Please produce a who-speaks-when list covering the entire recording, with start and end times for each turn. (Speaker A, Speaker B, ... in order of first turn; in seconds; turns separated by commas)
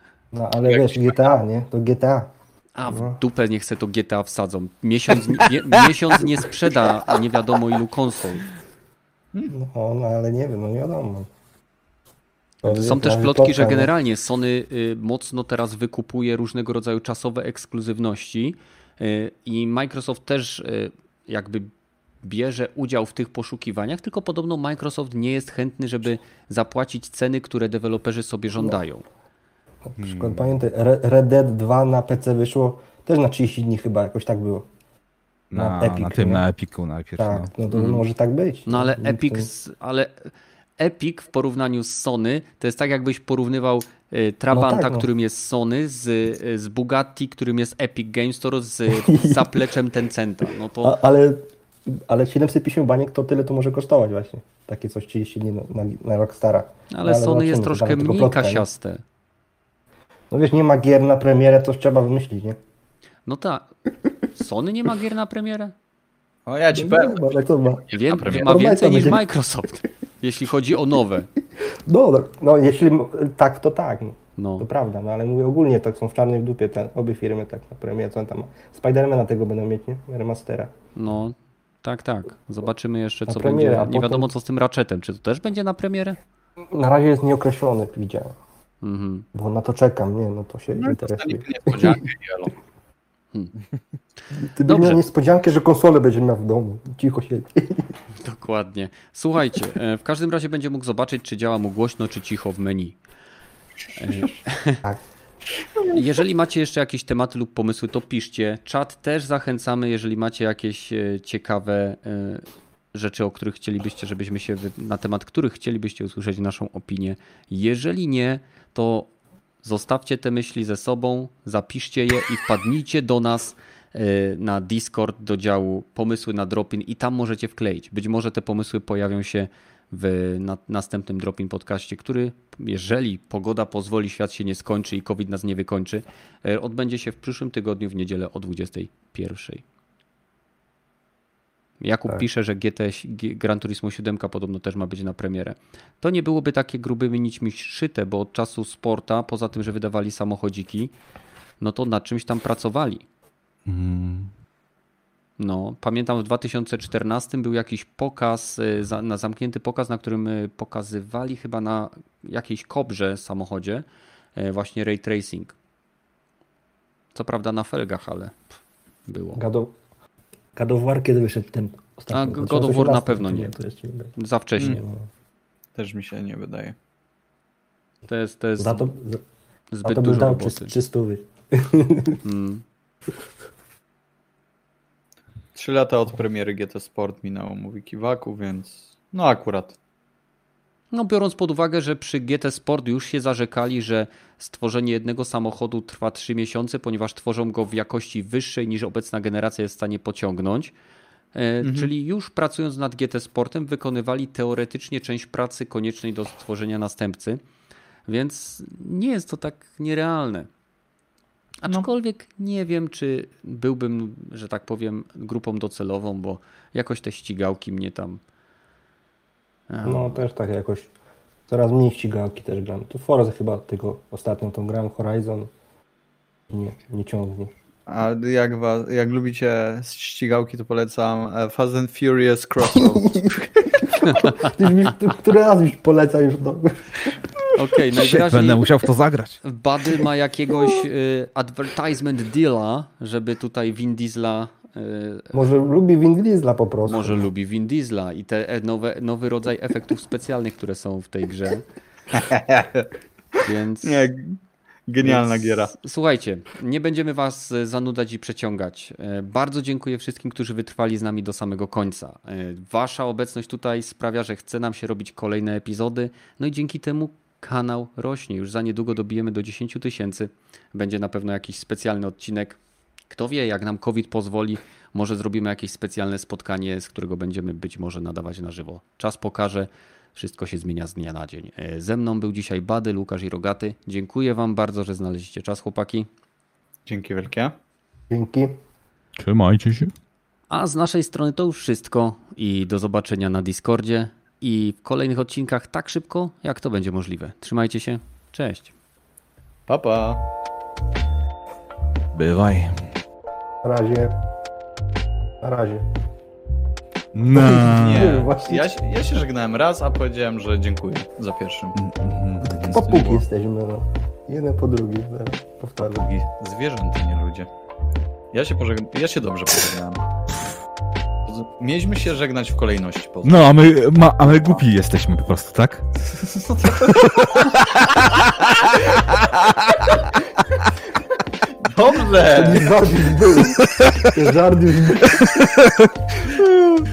Speaker A: 0.3-2.3, Speaker B: 0.6-1.4, Speaker C: 2.8-8.5, Speaker A: 2.9-3.2, Speaker A: 9.5-11.3, Speaker A: 12.6-13.9, Speaker C: 12.7-29.1, Speaker A: 29.9-34.7, Speaker D: 30.0-30.6, Speaker D: 35.5-37.5, Speaker A: 35.5-36.5, Speaker A: 37.2-39.5, Speaker C: 37.7-38.0, Speaker C: 38.7-51.0, Speaker A: 44.5-45.1, Speaker A: 48.9-49.5, Speaker A: 50.8-58.7, Speaker C: 56.9-59.0, Speaker A: 60.3-62.6, Speaker C: 63.3-63.7, Speaker C: 64.3-65.7, Speaker B: 66.5-68.7, Speaker A: 66.7-69.2, Speaker C: 67.9-71.3, Speaker A: 71.9-80.7, Speaker C: 74.4-74.7, Speaker C: 81.0-86.2, Speaker A: 83.3-84.3, Speaker A: 86.7-88.4, Speaker C: 88.8-89.3, Speaker A: 89.3-92.0, Speaker B: 90.8-92.6, Speaker A: 94.3-97.9, Speaker C: 94.7-95.0, Speaker C: 98.2-103.0, Speaker C: 104.0-104.8, Speaker C: 105.9-119.1, Speaker C: 119.6-139.6, Speaker C: 141.8-150.9, Speaker C: 151.6-153.1, Speaker D: 153.7-154.3, Speaker C: 155.4-163.8, Speaker C: 164.4-165.5, Speaker C: 167.2-168.4, Speaker C: 169.1-169.4, Speaker A: 169.3-169.7, Speaker A: 170.6-175.1, Speaker C: 172.1-173.5, Speaker C: 174.2-174.8, Speaker B: 175.8-176.8, Speaker C: 178.1-178.9, Speaker A: 178.6-179.2, Speaker C: 179.7-180.8, Speaker A: 179.8-182.2, Speaker C: 182.2-182.6, Speaker B: 185.6-189.8, Speaker C: 190.9-200.7, Speaker C: 201.3-207.4, Speaker B: 201.6-201.9, Speaker C: 208.1-210.5, Speaker C: 211.6-218.2, Speaker C: 219.7-220.2, Speaker A: 219.8-220.9, Speaker A: 221.5-225.5, Speaker A: 226.5-227.5, Speaker B: 227.9-233.9, Speaker A: 232.7-237.3, Speaker C: 234.1-234.4, Speaker C: 237.5-238.7, Speaker D: 237.9-239.4, Speaker C: 239.4-245.3, Speaker A: 245.3-247.3, Speaker C: 246.8-251.7, Speaker B: 252.1-252.9, Speaker C: 253.4-254.1, Speaker B: 253.8-254.4, Speaker B: 254.9-255.7, Speaker C: 255.0-286.1, Speaker B: 286.9-287.6, Speaker A: 288.1-288.6, Speaker D: 289.2-289.9, Speaker C: 290.5-298.7, Speaker B: 299.7-300.2, Speaker D: 302.1-302.8, Speaker A: 303.6-304.1, Speaker A: 305.4-305.9, Speaker D: 307.1-308.2, Speaker A: 307.3-308.7, Speaker B: 307.6-311.8, Speaker D: 311.8-312.9, Speaker A: 312.4-316.1, Speaker B: 312.4-313.2, Speaker B: 315.9-317.5, Speaker B: 318.3-320.0, Speaker B: 321.3-323.5, Speaker D: 323.2-325.9, Speaker B: 326.1-328.0, Speaker D: 326.9-329.8, Speaker B: 331.6-332.7, Speaker A: 332.3-335.3, Speaker D: 333.6-334.1, Speaker D: 335.0-336.0